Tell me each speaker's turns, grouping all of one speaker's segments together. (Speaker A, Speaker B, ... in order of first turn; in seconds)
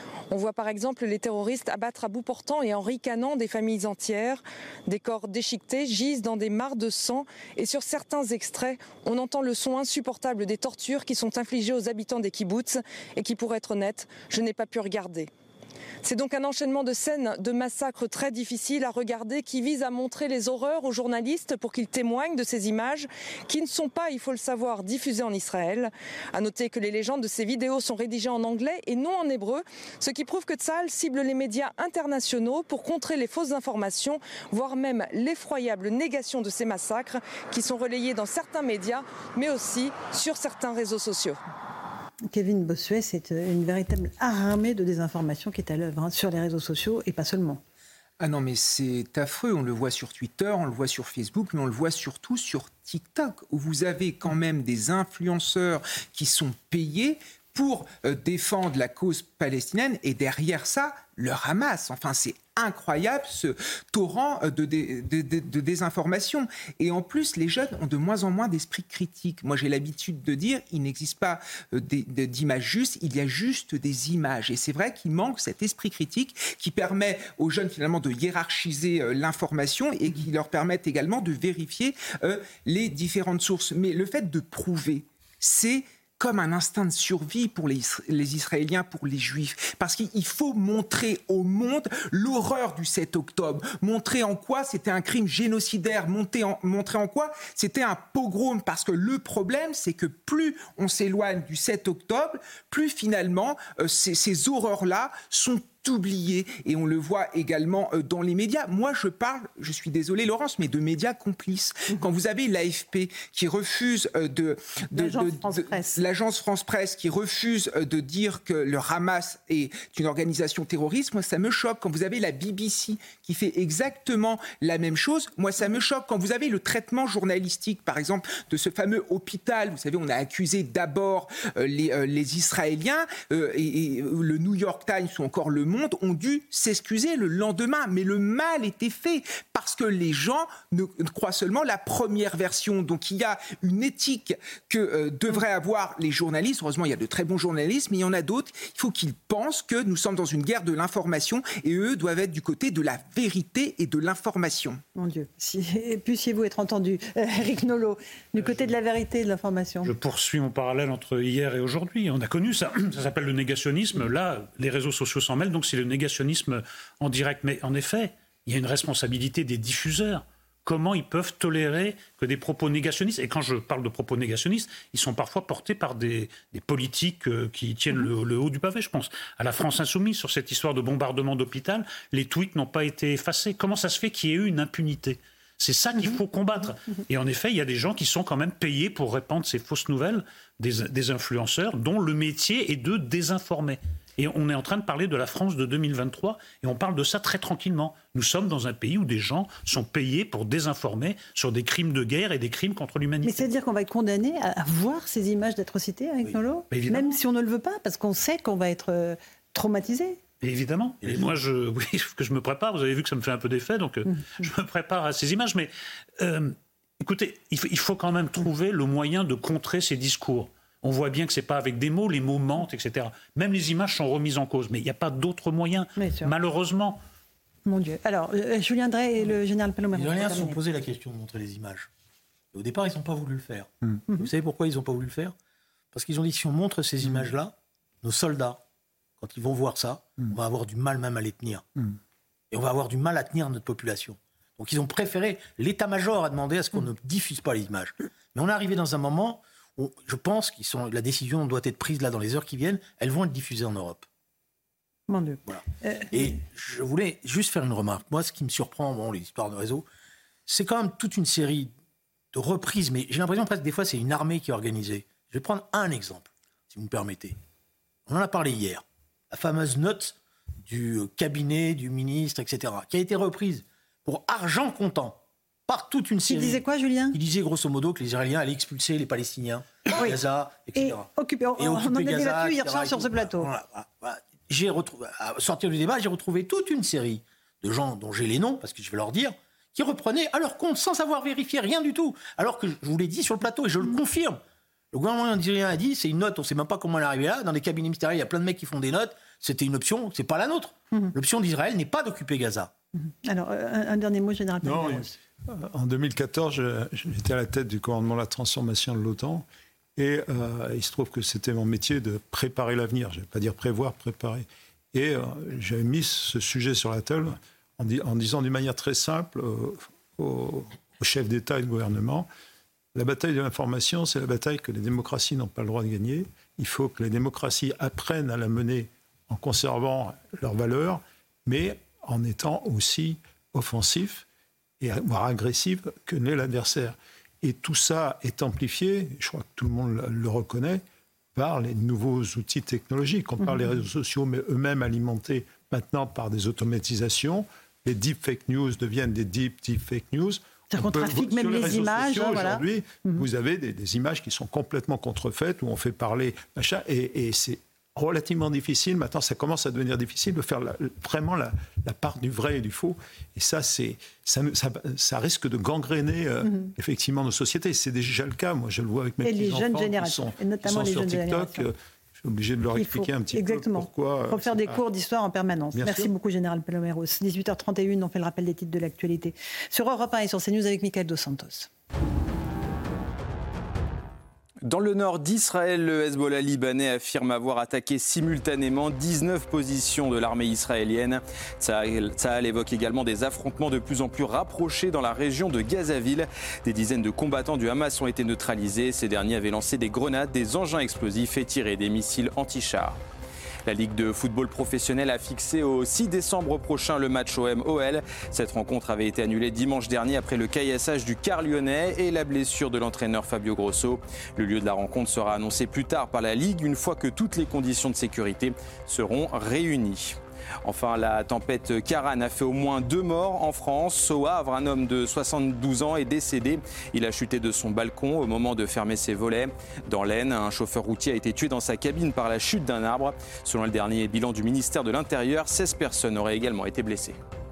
Speaker A: 0.3-15.3, 16.0-41.4
Speaker B: 42.3-47.6, 114.9-116.0, 154.9-159.9, 203.2-210.2, 226.0-226.3, 227.7-230.6, 255.1-256.4, 276.2-277.2, 279.9-280.2, 280.7-283.5, 302.9-305.1, 343.4-343.8, 350.7-353.2, 366.4-366.7, 369.2-371.7, 372.7-381.7
Speaker C: 48.2-154.8
Speaker D: 159.8-203.5, 206.7-207.1, 210.4-227.0
Speaker E: 211.0-211.3, 229.9-231.9, 232.5-235.3, 235.9-238.6, 239.2-241.6, 242.5-254.0, 255.4-259.8, 260.5-261.7, 262.3-267.4, 268.1-294.4, 294.9-302.7
Speaker F: 237.0-237.3, 304.6-309.4, 310.0-322.3, 322.9-334.2, 334.8-340.8, 341.3-374.8, 375.7-376.1
Speaker G: 384.6-403.0, 403.6-437.2